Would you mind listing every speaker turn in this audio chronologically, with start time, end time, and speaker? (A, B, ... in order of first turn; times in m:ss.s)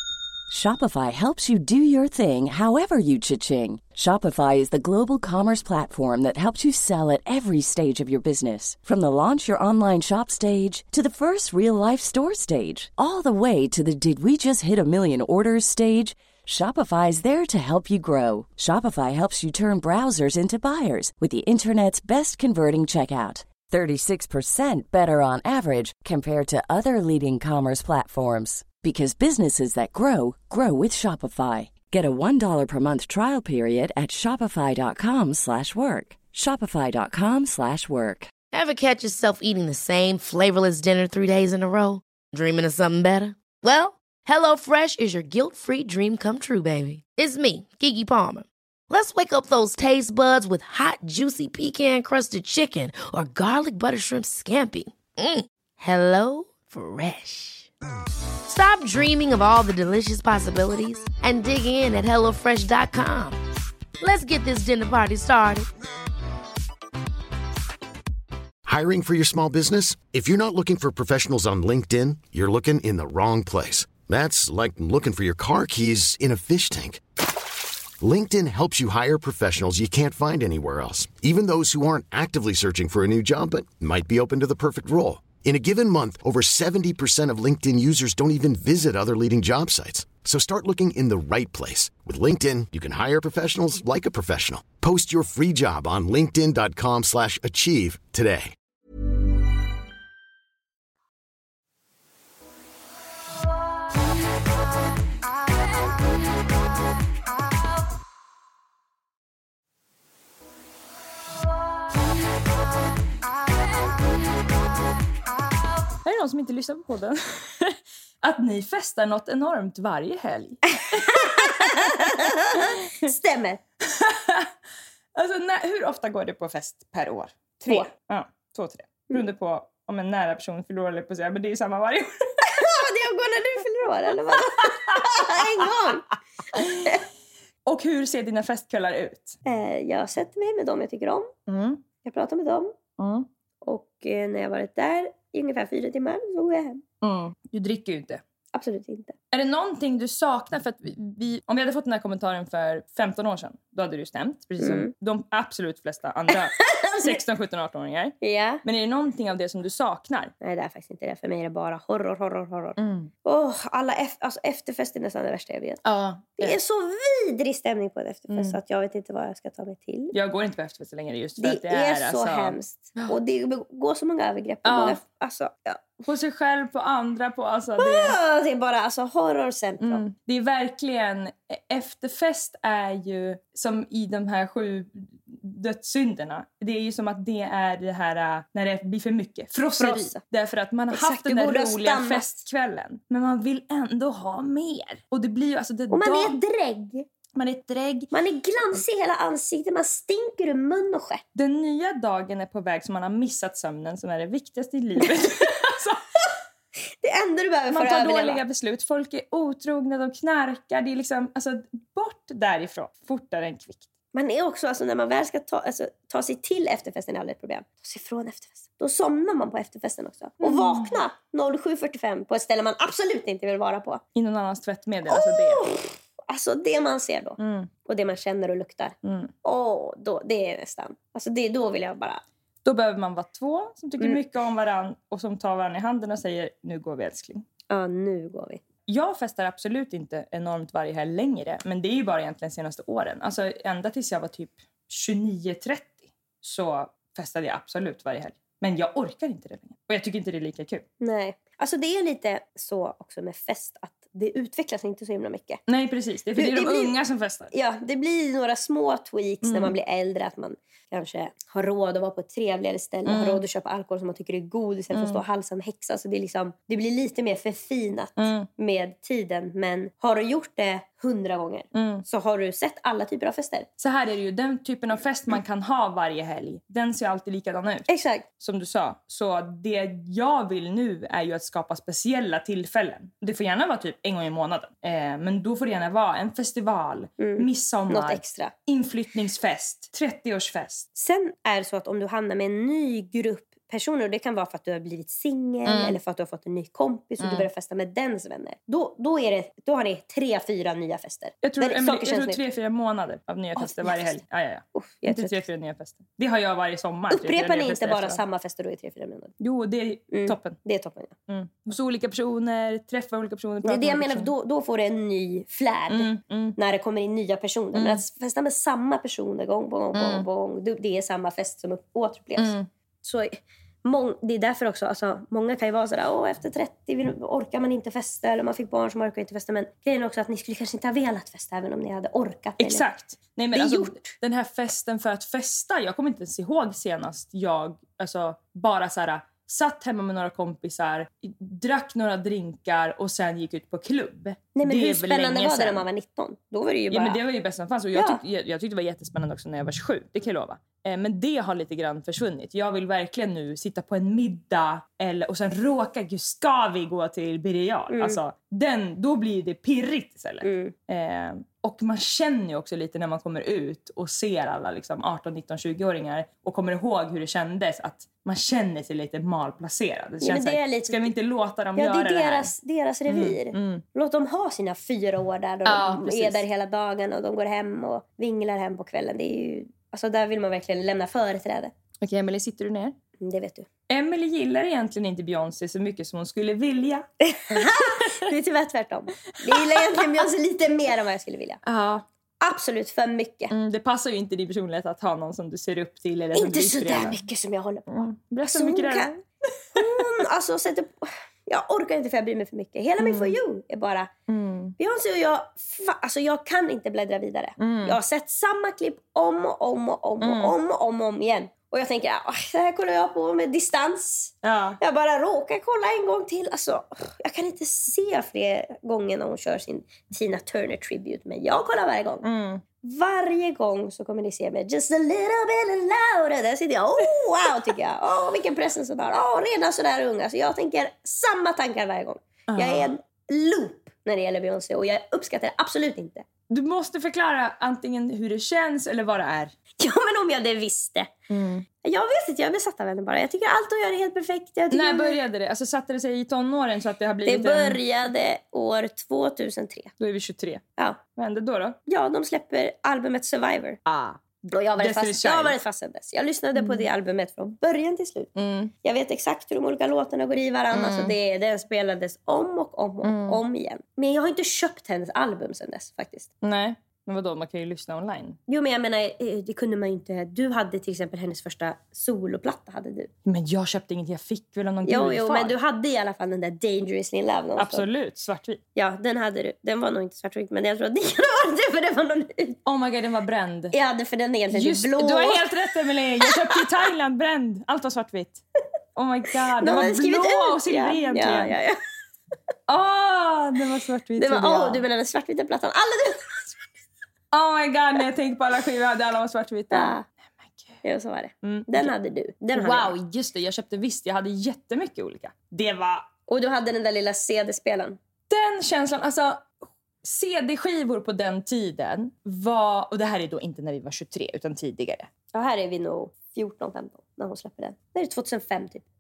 0:00.5-0:38.3 A
0:38.5-0:57.7 B
0:58.4-1:03.4 B
1:04.0-1:05.7 B
1:08.6-1:17.0 C
1:18.0-1:38.5 C
1:56.0-2:03.1 D
2:00.9-2:03.6 E
2:03.8-2:04.5 D
2:05.1-2:12.5 D
2:12.4-2:17.0 E
2:14.6-2:15.2 D
2:16.5-2:17.0 D
2:17.6-2:19.4 D
2:19.4-2:21.3 E
2:21.5-2:21.8 D
2:22.0-2:22.7 E
2:23.0-2:23.3 D
2:23.6-2:26.8 E
2:27.0-2:28.2 D
2:28.5-2:29.1 E
2:29.3-2:40.3 D
2:34.6-2:34.9 E
2:36.3-2:37.2 E
2:38.2-2:38.6 E
2:40.4-2:45.8 E
2:42.8-2:43.1 D
2:45.8-2:46.6 D
2:46.4-2:50.1 E
2:48.3-2:48.6 D
2:50.1-2:53.2 D
2:51.4-2:55.8 E
2:54.6-2:55.0 D
2:56.0-2:58.2 D
2:57.8-3:00.0 E
2:59.8-3:16.4 D
3:09.8-3:10.2 E
3:10.9-3:12.2 E
3:15.9-3:17.0 E
3:17.3-3:18.1 D
3:18.1-3:21.2 E
3:21.3-3:26.0 D
3:27.0-3:28.4 E
3:27.7-3:33.9 D
3:34.1-3:44.0 E
3:40.4-3:41.0 D
3:44.1-3:45.6 D
3:45.1-3:52.2 E
3:47.4-3:47.7 D
3:49.0-3:49.3 D
3:52.6-3:57.4 D
3:57.7-3:58.6 E
3:58.9-4:10.8 D
4:11.0-4:15.6 E
4:15.7-4:17.5 D
4:16.4-4:16.9 E
4:17.5-4:33.7 E
4:19.4-4:19.7 D
4:23.0-4:23.4 D
4:24.9-4:25.2 D
4:28.2-4:28.5 D
4:31.7-4:32.0 D
4:33.8-4:50.9 D
4:37.9-4:38.2 E
4:47.2-4:48.5 E
4:51.0-5:02.4 E
4:55.6-4:56.0 D
4:57.2-4:57.5 D
5:01.4-5:08.2 D
5:03.6-5:04.0 E
5:04.7-5:05.4 E
5:07.1-5:09.3 E
5:09.4-5:10.6 D
5:10.1-5:11.1 E
5:11.3-5:14.3 D
5:13.6-5:32.8 E
5:15.9-5:16.6 D
5:17.7-5:18.0 D
5:19.9-5:20.2 D
5:22.4-5:22.7 D
5:32.6-5:45.9 D
5:33.5-5:34.1 E
5:44.5-5:47.2 E
5:46.9-6:12.5 D
5:47.9-5:48.2 E
5:57.9-5:58.2 E
6:00.4-6:00.7 E
6:10.2-6:11.1 E
6:11.7-6:21.7 E
6:13.1-6:13.8 D
6:15.6-6:16.4 D
6:22.0-6:23.0 D
6:23.2-6:23.7 E
6:23.9-6:28.2 D
6:27.2-6:31.6 E
6:29.5-6:30.1 D
6:31.6-6:32.0 D
6:32.4-6:33.5 E
6:33.5-6:37.2 D
6:36.3-6:37.8 E
6:37.9-6:39.1 D
6:38.5-6:39.2 E
6:39.7-6:44.1 E
6:39.8-6:40.0 D
6:43.0-6:43.4 D
6:44.3-6:44.8 D
6:44.8-7:02.2 E
6:47.6-6:48.0 D
6:50.2-6:50.5 D
6:54.4-6:54.8 D
7:02.2-7:02.6 D
7:02.8-7:16.2 E
7:12.5-7:12.9 D
7:16.5-7:19.5 D
7:19.8-7:21.1 E
7:21.3-7:21.6 D
7:21.8-7:25.2 E
7:24.7-7:27.8 D
7:27.2-7:29.9 E
7:30.0-7:30.6 D
7:31.2-7:31.8 D
7:31.9-7:33.8 E
7:33.8-7:34.2 D
7:34.4-7:38.3 E
7:34.8-7:35.6 D
7:36.5-7:36.8 D
7:38.3-7:38.7 D
7:38.8-7:46.3 E
7:40.7-7:41.1 D
7:43.0-7:43.4 D
7:46.4-7:48.4 D
7:48.5-7:53.1 E
7:53.2-7:55.5 D
7:54.8-7:57.9 E
7:57.6-7:58.6 D
7:58.8-8:02.6 E
8:02.6-8:03.7 D
8:03.7-8:05.5 E
8:04.5-8:08.4 D
8:06.3-8:06.6 E
8:08.9-8:11.6 D
8:09.6-8:11.8 E
8:12.7-8:14.8 D
8:14.2-8:16.7 E
8:17.3-8:20.8 D
8:19.7-8:20.0 E
8:20.8-8:22.9 E
8:21.4-8:21.9 D
8:22.5-8:26.1 D
8:26.3-8:28.0 E
8:28.3-8:35.1 D
8:35.3-8:38.8 E